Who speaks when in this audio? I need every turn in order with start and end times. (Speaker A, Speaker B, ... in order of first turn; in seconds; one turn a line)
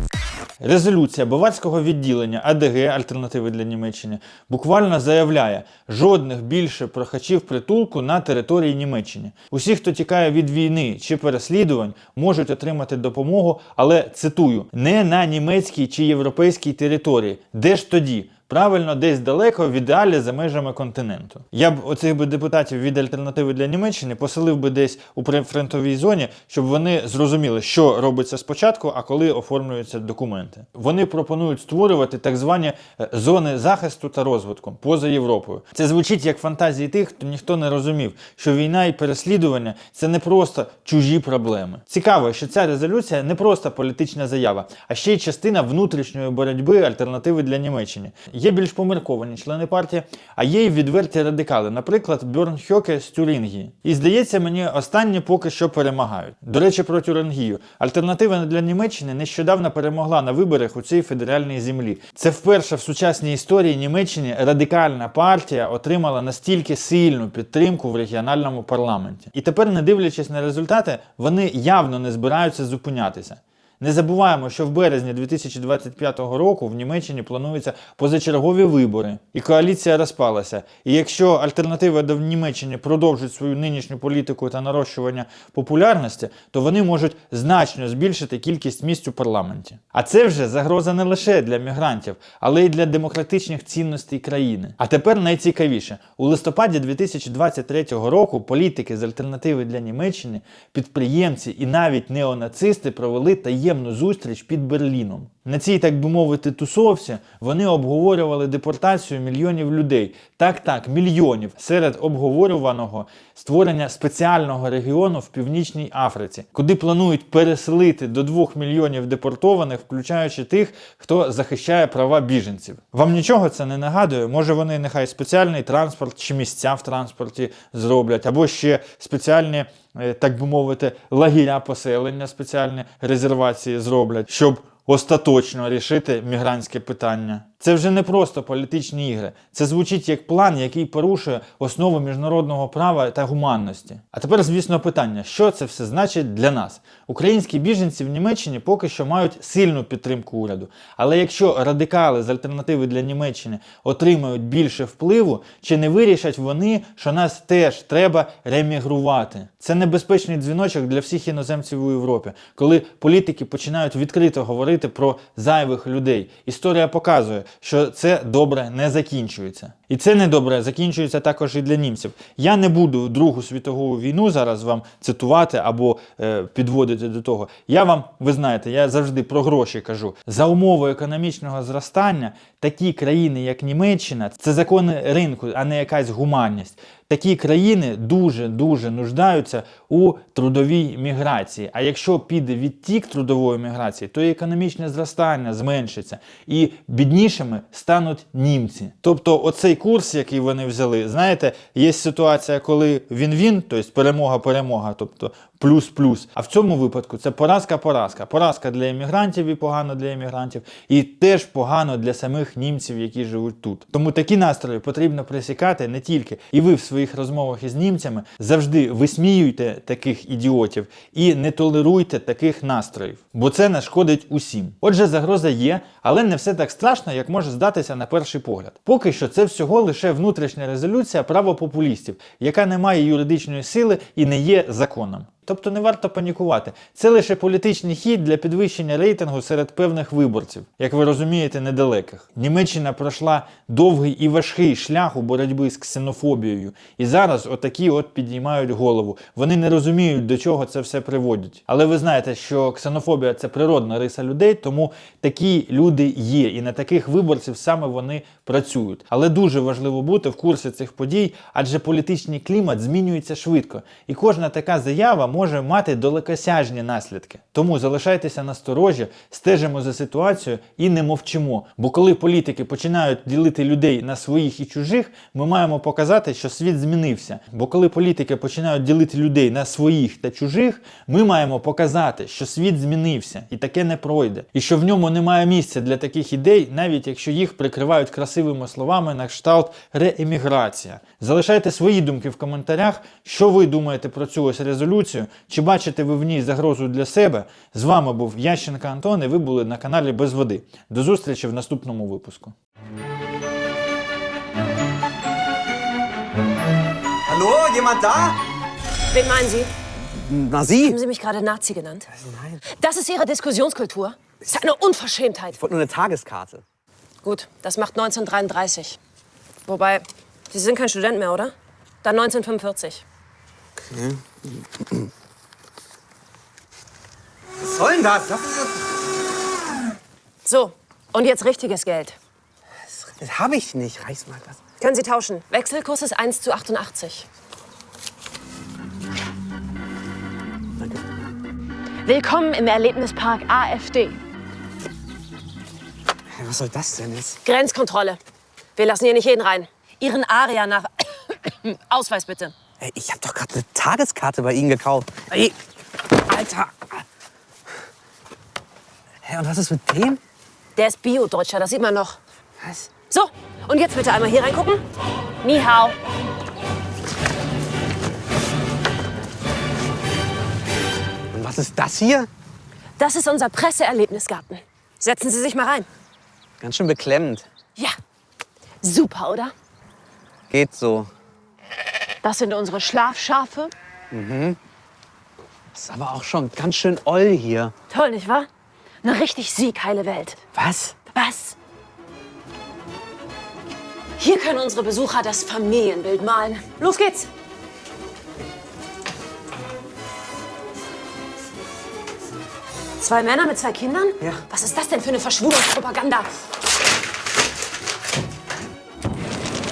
Speaker A: 0.6-302.6
Speaker B: 307.3-308.4
Speaker C: 309.1-309.7
Speaker B: 310.1-311.0
Speaker C: 310.9-312.1
Speaker B: 312.1-312.6
Speaker C: 312.7-315.6
Speaker B: 315.6-316.6
Speaker C: 317.2-319.0
Speaker C: 319.7-323.0
Speaker B: 323.8-324.5
Speaker B: 327.6-328.9
Speaker C: 330.4-332.2
Speaker B: 332.9-334.6
Speaker C: 334.8-337.3
Speaker C: 342.1-344.2
Speaker B: 346.3-347.4
Speaker C: 347.4-348.2
Speaker C: 348.8-352.6
Speaker B: 352.8-355.6
Speaker B: 356.2-357.0
Speaker B: 359.2-360.2
Speaker C: 360.8-362.2
Speaker B: 362.6-362.9
Speaker C: 363.1-364.8
Speaker C: 365.4-366.0
Speaker B: 371.3-372.3
Speaker C: 373.0-375.9
Speaker B: 376.6-377.5
Speaker C: 378.8-379.5
Speaker B: 380.5-381.1
Speaker C: 382.2-383.7
Speaker B: 384.1-384.6
Speaker B: 385.7-387.7
Speaker C: 387.9-388.5
Speaker C: 389.0-390.4
Speaker B: 390.6-391.0
Speaker C: 391.1-391.6
Speaker C: 394.2-397.3
Speaker C: 403.0-406.3